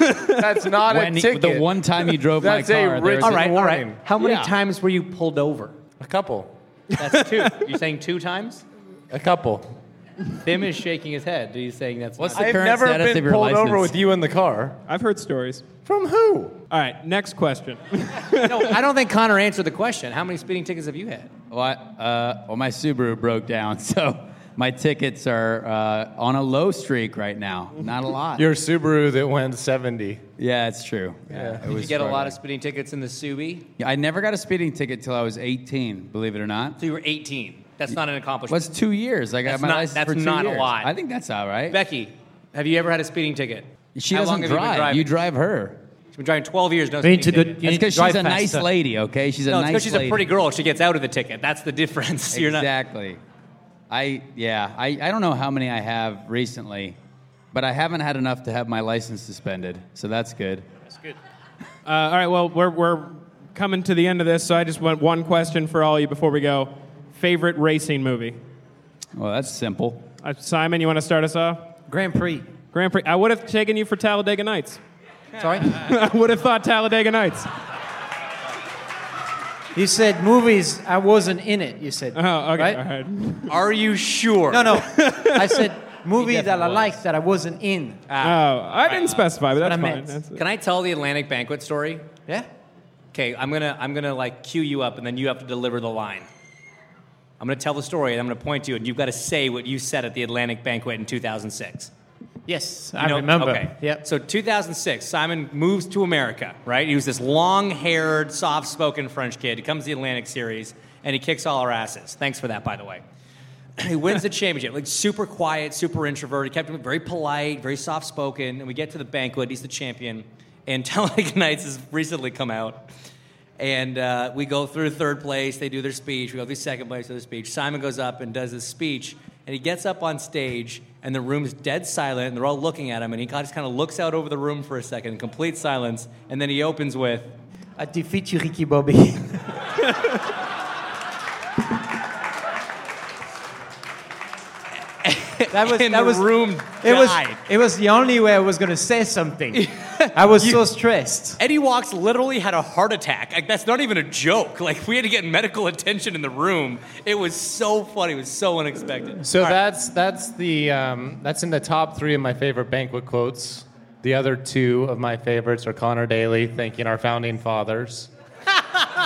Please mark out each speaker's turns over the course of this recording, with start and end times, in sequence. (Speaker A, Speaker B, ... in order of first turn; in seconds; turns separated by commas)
Speaker A: 0.4-4.0, Speaker B: 0.8-3.4, Speaker C: 3.2-5.8, Speaker B: 4.2-4.5, Speaker A: 6.0-6.5, Speaker C: 7.0-8.6, Speaker A: 9.1-9.7, Speaker C: 10.4-12.5, Speaker B: 12.2-14.0, Speaker A: 12.3-14.8, Speaker D: 14.9-15.7, Speaker A: 15.9-16.6, Speaker D: 16.7-18.7, Speaker C: 18.4-21.3, Speaker B: 21.5-28.5, Speaker A: 28.4-30.2, Speaker B: 30.4-32.4, Speaker A: 31.3-31.6, Speaker C: 31.6-33.7, Speaker B: 33.8-36.8, Speaker C: 36.8-38.7, Speaker B: 38.5-41.8, Speaker C: 39.5-40.9, Speaker C: 41.7-45.1, Speaker B: 44.0-45.8, Speaker C: 46.1-47.6, Speaker E: 47.0-48.7, Speaker B: 47.6-50.3, Speaker C: 49.5-52.7, Speaker B: 52.3-53.2, Speaker B: 53.9-57.0, Speaker B: 57.5-60.7, Speaker D: 61.9-68.4, Speaker B: 69.2-70.1, Speaker D: 70.2-71.7, Speaker E: 71.9-72.5, Speaker D: 72.7-74.8, Speaker E: 75.4-75.8, Speaker D: 75.7-77.5, Speaker E: 79.8-82.8, Speaker D: 82.1-83.5, Speaker C: 83.5-84.9, Speaker E: 84.5-88.1, Speaker D: 84.8-85.7, Speaker B: 86.2-87.0, Speaker C: 88.1-89.3, Speaker D: 88.2-90.4, Speaker E: 89.5-90.2, Speaker C: 90.3-92.1, Speaker C: 93.1-96.3, Speaker C: 97.4-101.9, Speaker E: 102.5-104.0, Speaker C: 103.0-113.0, Speaker C: 113.8-122.8, Speaker C: 123.6-137.3, Speaker E: 137.8-139.9, Speaker C: 145.0-147.4, Speaker E: 145.5-151.4, Speaker C: 149.5-150.6, Speaker C: 151.4-159.6, Speaker A: 159.2-168.1